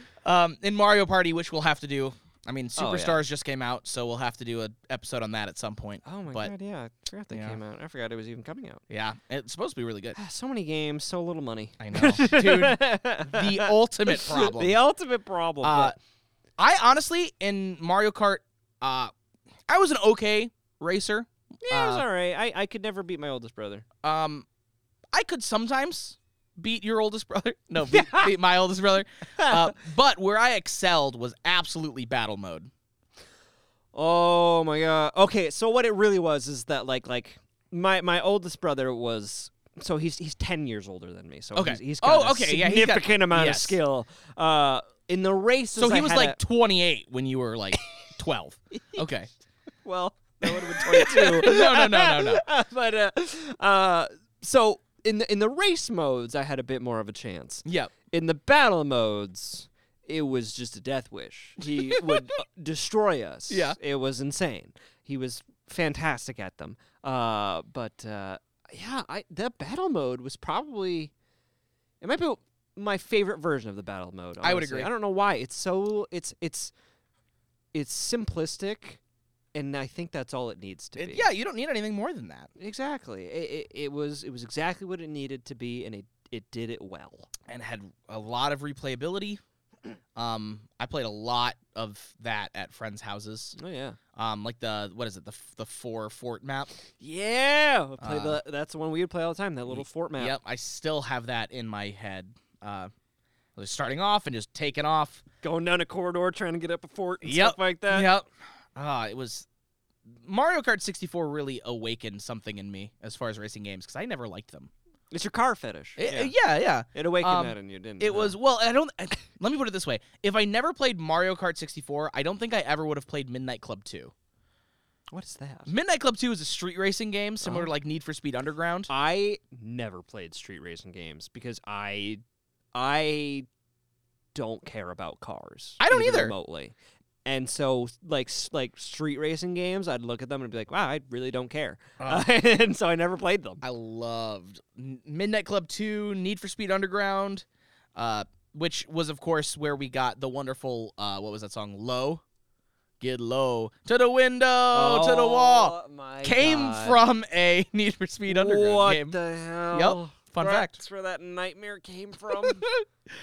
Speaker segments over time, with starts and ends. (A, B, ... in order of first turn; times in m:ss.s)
0:00.2-0:06.5 A
0:02.8-0:03.2 B
0:06.0-0:08.8 B
0:07.3-0:07.6 A
0:08.9-0:10.2 A
0:10.1-0:16.0 B
0:11.8-0:14.8 A
0:15.6-0:16.0 A
0:16.6-0:19.1 A
0:19.7-0:22.0 A
0:21.6-0:23.8 B
0:24.0-0:24.4 A
0:25.1-0:32.7 A
0:27.8-0:28.3 B
0:29.4-0:29.7 B
0:33.9-0:46.4 B
0:41.5-0:43.8 A
0:45.7-0:49.3 A
0:48.7-0:49.1 B
0:49.8-1:11.1 B
0:50.4-0:52.4 A
0:57.6-0:57.9 A
1:03.5-1:03.8 A
1:12.0-1:16.7 B
1:14.4-1:14.9 A
1:17.7-1:19.0 B
1:19.5-1:21.3 B
1:21.0-1:22.5 A
1:22.6-1:27.3 B
1:27.5-1:29.4 A
1:30.1-1:33.6 A
1:33.6-1:34.0 B
1:34.2-1:36.7 A
1:37.0-1:40.4 B
1:38.0-1:38.4 A
1:39.7-1:42.9 A
1:43.6-1:45.2 A
1:45.4-1:48.1 B
1:47.2-1:49.4 A
1:50.1-1:54.7 A
1:55.1-1:56.3 B
1:56.0-2:04.1 A
1:56.9-1:58.4 B
2:05.1-2:05.7 B
2:05.7-2:08.9 A
2:07.4-2:07.7 B
2:08.9-2:12.2 B
2:12.7-2:13.5 B
2:14.3-2:16.7 B
2:15.8-2:16.3 A
2:17.2-2:23.6 B
2:22.0-2:22.2 A
2:23.6-2:32.2 A
2:33.0-2:39.2 A
2:34.7-2:37.0 B
2:38.3-2:42.7 B
2:39.7-2:40.8 A